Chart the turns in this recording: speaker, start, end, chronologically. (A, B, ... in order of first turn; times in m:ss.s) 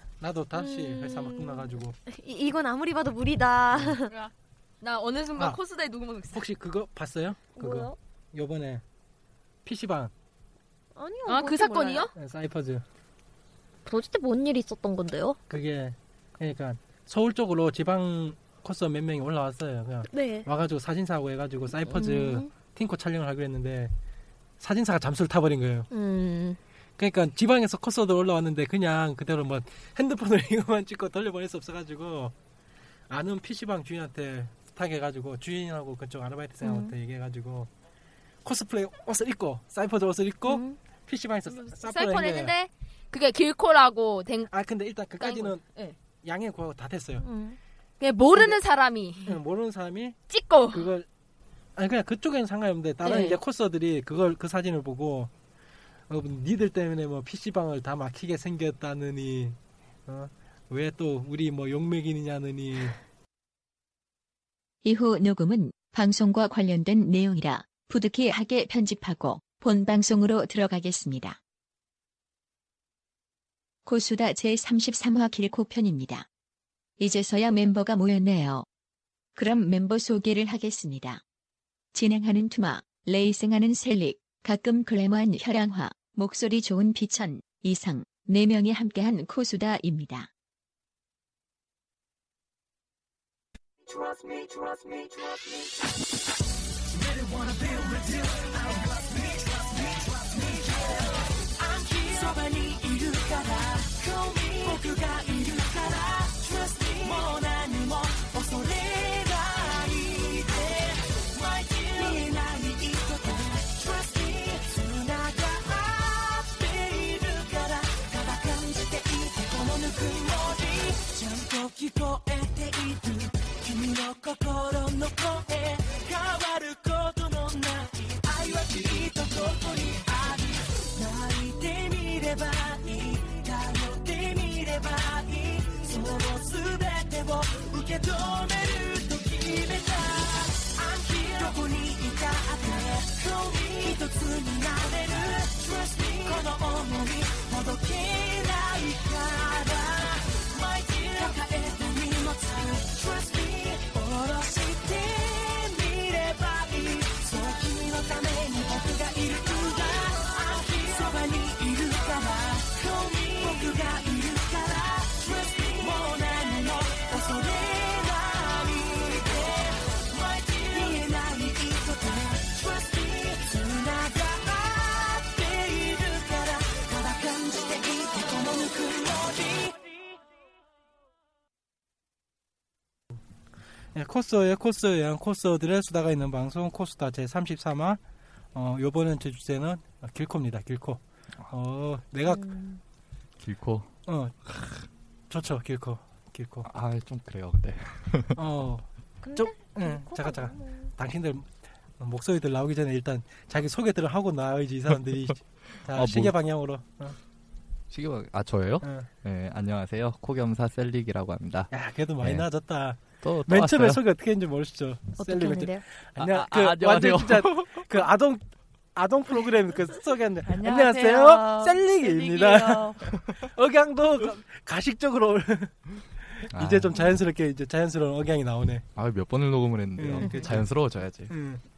0:00.2-0:02.0 A
0:00.5-0:04.1 B
0:04.1-0:06.4 C
0:06.3-0:08.8 A
0:07.6-0:08.0 B
0:09.6-0:10.1 A
0:11.0-0:12.1 B
0:11.3-0:12.1 C
0:12.2-0:12.8 A
0:13.9-0:15.4 B
0:15.5-0:23.9 A
0:20.1-0:20.5 B
0:21.9-0:22.5 B
0:24.6-0:25.9 A
0:25.9-0:26.6 B
0:27.0-0:32.3 A
0:33.1-0:37.7 A
0:38.4-0:42.5 A
0:40.5-0:40.8 B
0:41.5-0:44.5 C
0:44.5-0:45.6 A
0:45.2-0:46.0 C
0:46.2-0:47.3 A
0:47.2-0:47.6 B
0:48.0-0:49.4 C
0:49.3-0:50.2 A
0:50.3-0:50.9 C
0:50.7-0:51.1 A
0:51.8-0:55.3 A
0:53.0-0:53.4 C
0:56.1-1:03.0 A
1:04.8-1:11.4 D
1:13.8-1:16.3 D
1:17.0-1:18.7 D
1:19.4-1:21.2 D
1:21.9-1:30.3 D
2:29.5-2:30.0 B
2:30.9-2:31.4 B
2:39.5-2:41.2 B
2:43.2-2:44.0 B
2:45.6-2:46.0 B
2:50.8-2:51.1 B
3:04.0-3:08.0 A
3:08.5-3:12.5 A
3:12.3-3:12.8 B
3:13.4-3:13.9 E
3:14.1-3:14.4 A
3:14.5-3:14.8 E
3:15.3-3:16.7 A
3:16.6-3:18.4 E
3:18.4-3:27.2 A
3:19.2-3:20.9 B
3:25.9-3:26.4 E
3:27.9-3:32.5 E
3:28.8-3:29.1 A
3:31.7-3:38.4 A
3:33.2-3:34.0 E
3:35.2-3:35.8 B
3:36.2-3:38.0 E
3:39.0-3:48.9 A
3:40.5-3:43.0 C
3:46.5-3:47.2 E
3:49.0-3:51.3 E
3:50.0-3:50.7 A
3:51.3-3:51.6 A